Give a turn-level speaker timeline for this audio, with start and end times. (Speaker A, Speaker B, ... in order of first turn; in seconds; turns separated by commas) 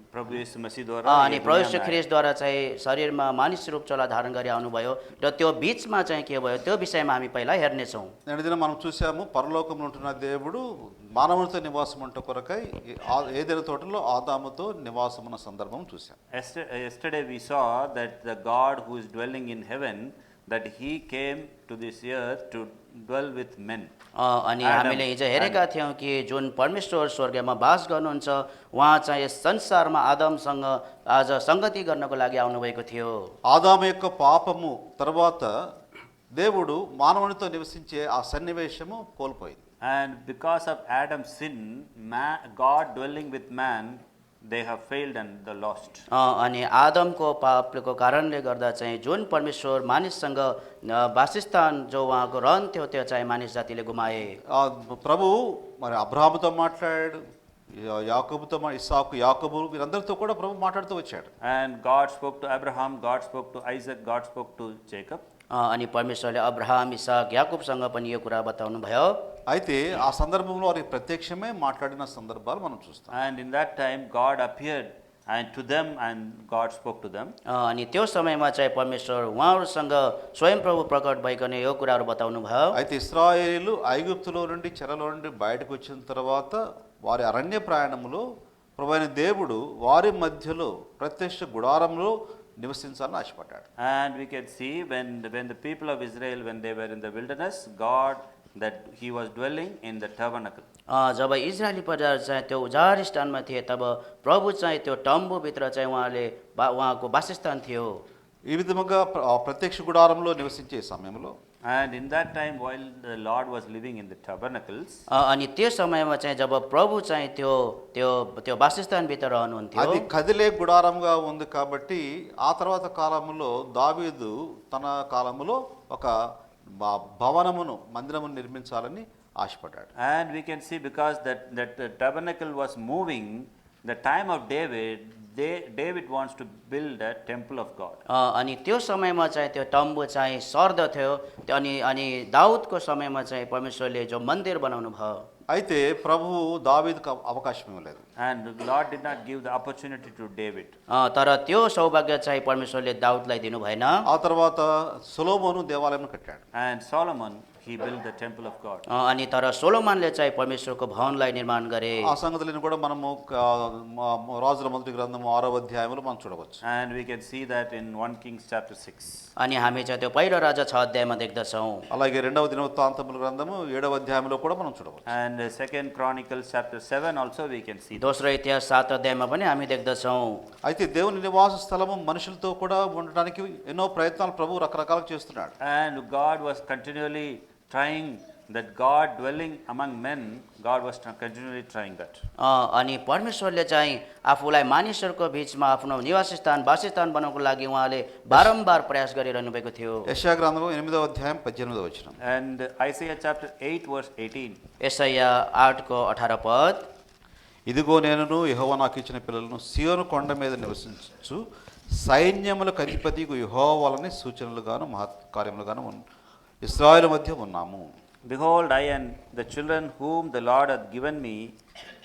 Speaker A: 0.1-2.0, Speaker B: 1.1-8.1, Speaker C: 8.3-16.2, Speaker A: 16.3-23.9, Speaker B: 24.2-33.3, Speaker A: 24.6-25.6, Speaker C: 33.5-35.5, Speaker C: 36.3-39.6, Speaker A: 39.8-46.1, Speaker B: 46.1-54.4, Speaker C: 54.5-57.2, Speaker C: 57.7-61.3, Speaker A: 61.4-65.2, Speaker B: 65.5-69.2, Speaker C: 69.5-73.2, Speaker A: 73.1-77.3, Speaker B: 77.5-82.7, Speaker C: 82.7-88.2, Speaker C: 88.8-93.7, Speaker A: 93.8-100.7, Speaker B: 100.9-108.0, Speaker C: 108.5-111.3, Speaker A: 111.7-115.0, Speaker B: 115.1-120.0, Speaker C: 119.8-126.1, Speaker C: 126.8-129.9, Speaker A: 130.0-138.0, Speaker B: 138.1-145.2, Speaker C: 145.5-148.1, Speaker A: 148.2-150.8, Speaker B: 150.9-153.9, Speaker C: 154.1-156.4, Speaker A: 156.5-158.9, Speaker B: 158.9-162.1, Speaker C: 162.0-166.6, Speaker A: 166.6-169.2, Speaker B: 169.4-171.8, Speaker C: 171.9-175.1, Speaker A: 175.1-178.1, Speaker B: 178.0-180.4, Speaker C: 180.6-185.5, Speaker A: 185.6-192.2, Speaker B: 192.4-200.1, Speaker C: 200.1-202.2, Speaker A: 202.2-204.6, Speaker B: 204.8-206.8, Speaker C: 207.7-211.4, Speaker C: 212.0-216.0, Speaker C: 216.6-217.9, Speaker A: 218.2-221.6